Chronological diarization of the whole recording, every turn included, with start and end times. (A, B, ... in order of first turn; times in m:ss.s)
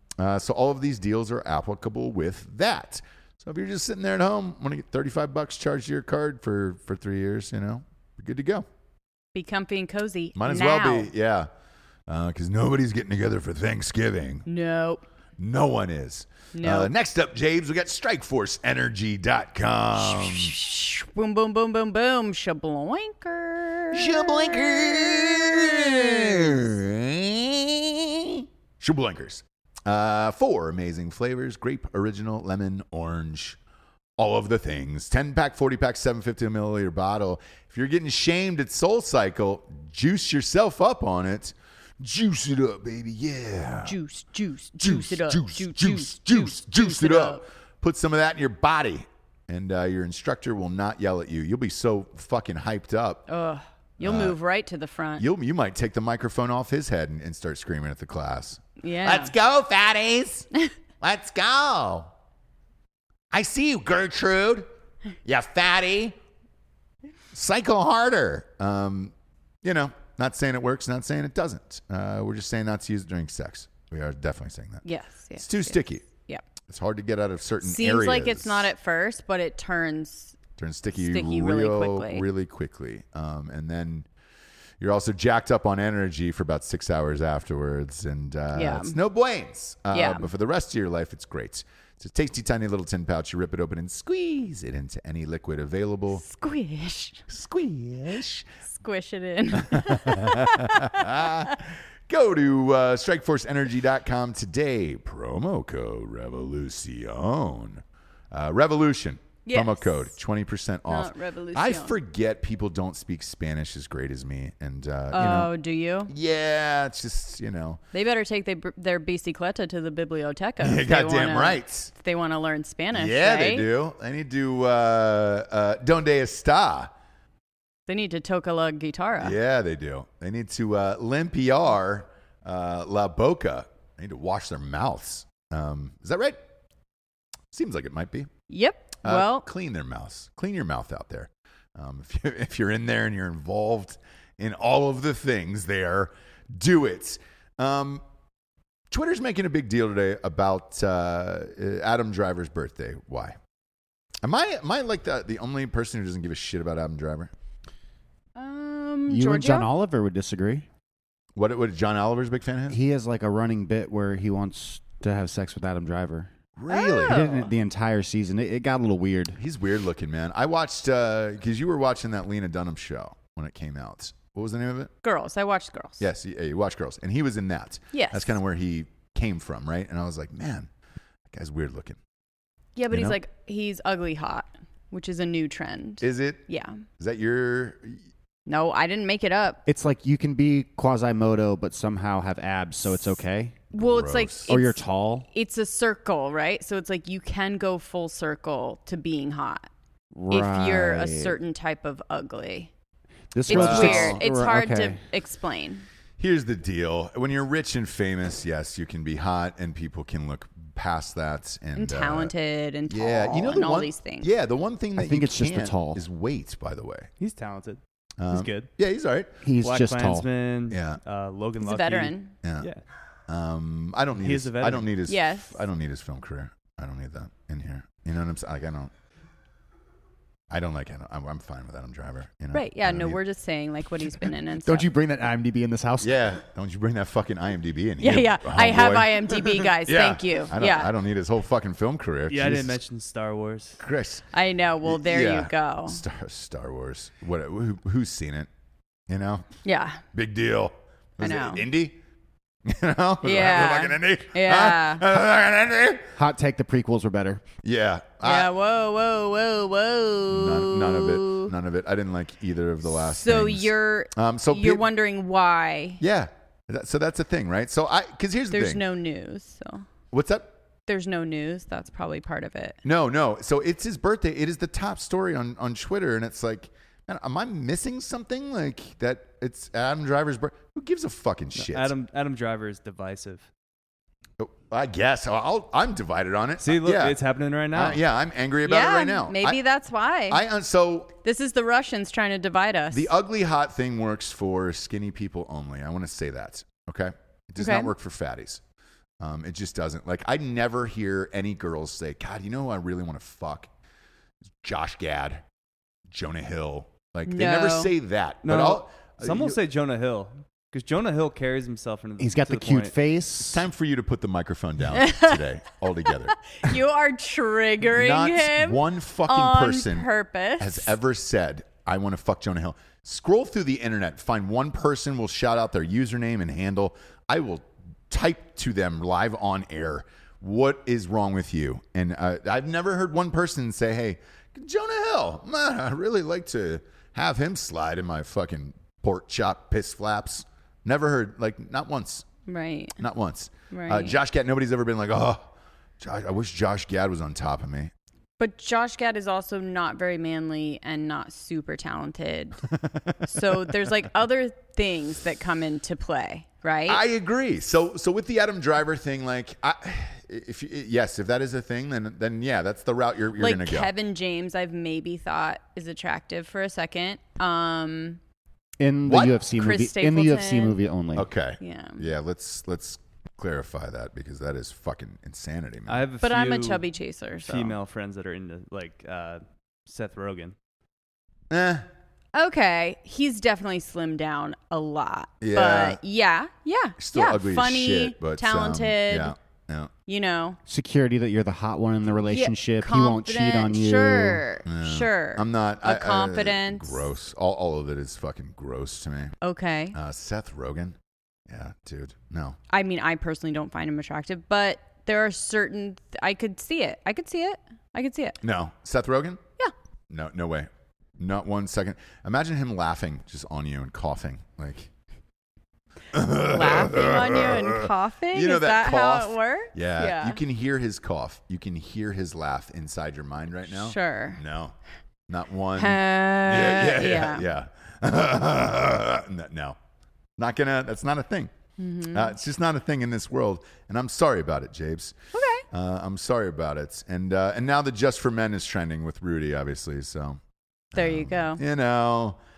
0:00.2-0:08.7 A
0:09.3-0:11.1 B
0:10.4-0:11.5 A
0:12.1-0:14.4 A
0:14.5-0:15.0 B
0:15.4-0:20.6 A
0:16.6-0:16.9 B
0:20.0-0:26.5 B
0:23.9-0:33.6 A
0:34.2-0:44.0 A
0:43.8-0:47.4 B
0:44.8-0:53.3 A
0:53.3-0:55.2 B
0:54.0-0:54.4 A
0:55.2-1:00.5 A
0:58.8-0:59.3 B
1:01.0-1:02.1 A
1:03.3-1:04.7 A
1:05.2-1:06.2 A
1:07.3-1:14.8 A
1:14.8-1:16.4 B
1:15.4-1:16.0 A
1:16.7-1:18.7 A
1:17.6-1:20.4 B
1:20.6-1:24.1 A
1:20.9-1:22.2 B
1:24.8-1:36.2 A
1:28.5-1:29.0 B
1:29.9-1:30.3 B
1:36.1-1:37.2 B
1:37.3-1:38.5 A
1:38.7-1:41.4 B
1:39.6-1:55.5 A
1:49.4-1:50.1 B
1:50.9-1:52.0 B
1:55.1-1:56.1 B
1:56.1-1:57.8 A
1:57.9-2:03.7 B
2:00.6-2:01.9 A
2:02.9-2:06.9 A
2:07.9-2:09.4 B
2:09.2-2:16.4 A
2:17.5-2:18.3 A
2:18.5-2:19.4 B
2:19.0-2:28.0 A
2:28.9-2:33.4 A
2:34.2-2:37.3 A
2:38.4-2:39.7 B
2:39.1-2:40.7 C
2:41.4-2:42.8 A
2:42.7-2:46.3 C
2:46.6-2:47.2 A
2:46.7-2:47.5 B
2:47.0-2:49.4 C
2:49.4-2:54.9 A
2:55.0-2:56.0 B
2:56.0-3:00.7 A
2:57.9-2:58.4 B
3:01.3-3:02.0 A
3:02.8-3:06.8 B
3:02.9-3:03.2 A
3:06.0-3:06.4 A
3:07.0-3:08.0 A
3:08.5-3:09.6 B
3:09.7-3:13.6 C
3:13.7-3:14.5 A
3:13.7-3:19.7 B
3:14.5-3:15.3 C
3:20.1-3:21.4 C
3:20.3-3:22.7 B
3:23.3-3:25.0 C
3:23.5-3:25.8 B
3:23.5-3:24.2 A
3:26.2-3:32.3 A
3:31.7-3:34.3 B
3:32.9-3:37.1 A
3:35.0-3:36.0 C
3:37.2-3:38.7 D
3:38.2-3:39.4 A
3:39.4-3:40.3 C
3:39.6-3:42.8 D
3:40.7-3:41.0 A
3:41.6-3:42.3 B
3:42.4-3:42.7 A
3:43.3-3:48.9 A
3:44.1-3:44.9 D
3:45.1-3:45.6 B
3:50.5-3:53.2 A
3:52.5-3:54.9 B
3:54.6-3:56.2 C
3:56.0-4:02.8 A
3:58.0-4:00.9 B
4:02.3-4:03.8 D
4:03.8-4:04.3 A
4:04.3-4:06.0 B
4:04.8-4:08.5 A
4:09.1-4:09.5 A
4:09.6-4:10.0 B
4:10.1-4:12.0 A
4:11.2-4:11.6 B
4:12.6-4:16.1 A
4:13.2-4:15.0 B
4:16.1-4:17.4 C
4:17.6-4:18.5 A
4:18.2-4:21.5 B
4:20.3-4:24.8 A
4:22.9-4:26.0 B
4:26.0-4:28.8 A
4:28.5-4:29.9 B
4:30.1-4:30.5 A
4:30.9-4:32.8 B
4:32.8-4:41.9 A
4:41.6-4:43.5 D
4:44.4-4:47.2 A
4:46.6-4:48.0 D
4:47.7-4:49.6 A
4:48.6-4:50.4 B
4:50.3-4:51.1 A
4:51.2-4:53.1 B
4:52.9-4:58.6 A
4:57.6-4:57.9 B
4:59.2-5:03.7 A
5:04.6-5:05.4 A
5:06.1-5:09.6 A
5:07.3-5:07.9 B
5:08.4-5:12.9 D
5:12.2-5:13.6 C
5:13.5-5:16.7 A
5:14.9-5:15.5 B
5:16.0-5:20.9 B
5:17.8-5:20.1 A
5:20.6-5:42.2 A
5:42.5-5:43.0 B
5:43.0-5:47.9 A
5:43.7-5:44.2 B
5:48.4-5:52.6 B
5:52.9-5:53.5 A
5:53.2-5:57.0 B
5:56.9-6:03.9 A
6:03.4-6:08.2 B
6:08.8-6:11.3 C
6:09.0-6:09.4 A
6:09.5-6:10.8 B
6:11.1-6:16.0 A
6:11.6-6:12.0 B
6:15.9-6:16.8 D
6:16.2-6:17.8 B
6:17.4-6:20.6 D
6:21.5-6:21.9 A
6:22.3-6:29.3 B
6:25.4-6:26.0 A
6:27.0-6:29.9 A
6:30.0-6:30.6 B
6:30.7-6:34.4 C
6:32.2-6:37.1 B
6:34.7-6:39.3 A
6:39.4-6:40.0 B
6:39.9-6:41.0 A
6:41.5-6:42.6 A
6:42.7-6:48.4 B
6:48.4-6:49.4 A
6:50.1-6:54.9 A
6:56.1-7:04.7 A
6:56.4-7:00.4 B
7:03.7-7:04.4 B
7:05.3-7:09.8 A
7:05.8-7:07.4 B
7:10.4-7:11.5 A
7:11.8-7:12.4 B
7:12.1-7:15.2 A
7:15.3-7:15.6 B
7:15.7-7:20.4 A
7:20.9-7:22.4 A
7:21.0-7:21.6 B